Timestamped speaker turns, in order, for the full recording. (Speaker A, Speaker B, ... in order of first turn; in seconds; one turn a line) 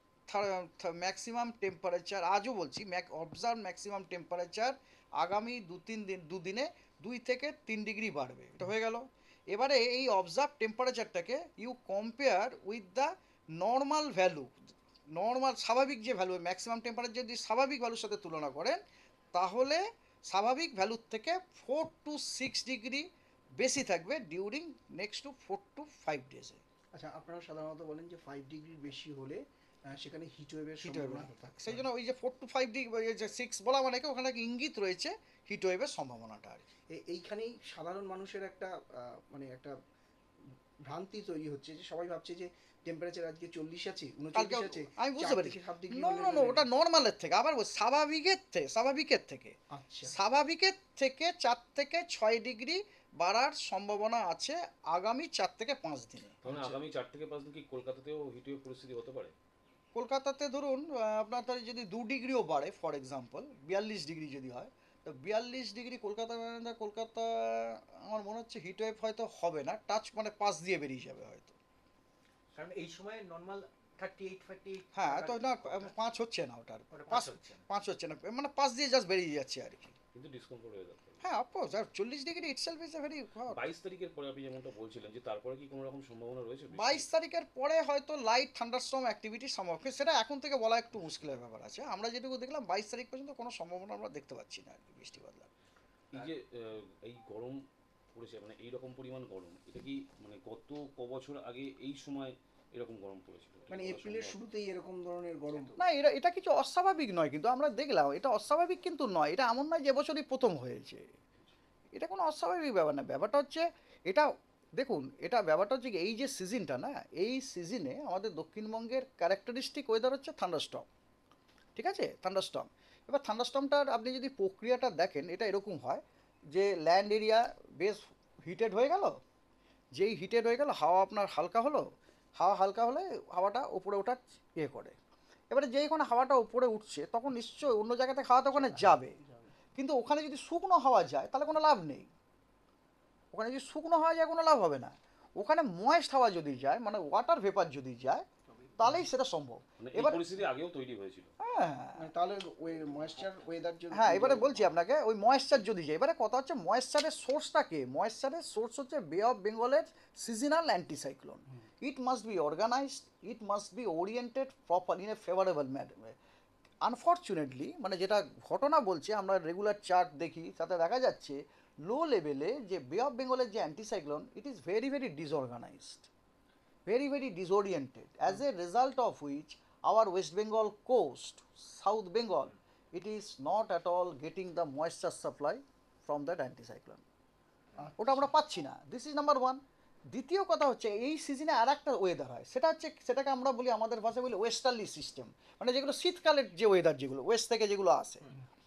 Speaker A: 0.3-14.5
Speaker A: 15.1-18.8
Speaker A: 19.3-23.1
Speaker A: 23.6-26.6
Speaker B: 26.9-31.8
Speaker A: 30.8-36.7
Speaker B: 36.9-39.7
Speaker B: 40.8-46.7
Speaker A: 44.3-49.5
Speaker B: 49.7-50.1
Speaker A: 50.1-56.4
Speaker C: 56.4-59.3
Speaker A: 59.9-71.5
Speaker D: 72.5-75.9
Speaker A: 74.9-79.9
Speaker D: 76.9-77.6
Speaker C: 80.1-81.2
Speaker A: 81.2-83.6
Speaker C: 83.5-87.1
Speaker A: 86.7-95.5
Speaker C: 96.1-97.6
Speaker C: 98.1-104.4
Speaker B: 103.7-105.8
Speaker A: 105.8-111.1
Speaker A: 111.9-114.2
Speaker A: 114.8-120.9
Speaker A: 121.8-126.0
Speaker A: 126.5-129.2
Speaker A: 129.9-131.8
Speaker A: 132.4-134.9
Speaker A: 135.5-139.1
Speaker B: 138.5-139.5
Speaker A: 139.8-142.1
Speaker A: 143.3-148.2
Speaker B: 148.8-149.0
Speaker A: 148.8-150.2
Speaker C: 149.8-151.3
Speaker A: 151.4-152.1
Speaker B: 152.0-154.8
Speaker A: 153.9-166.1
Speaker A: 166.8-176.1
Speaker A: 176.9-187.0
Speaker B: 187.8-188.3
Speaker A: 188.0-189.6
Speaker A: 190.1-198.3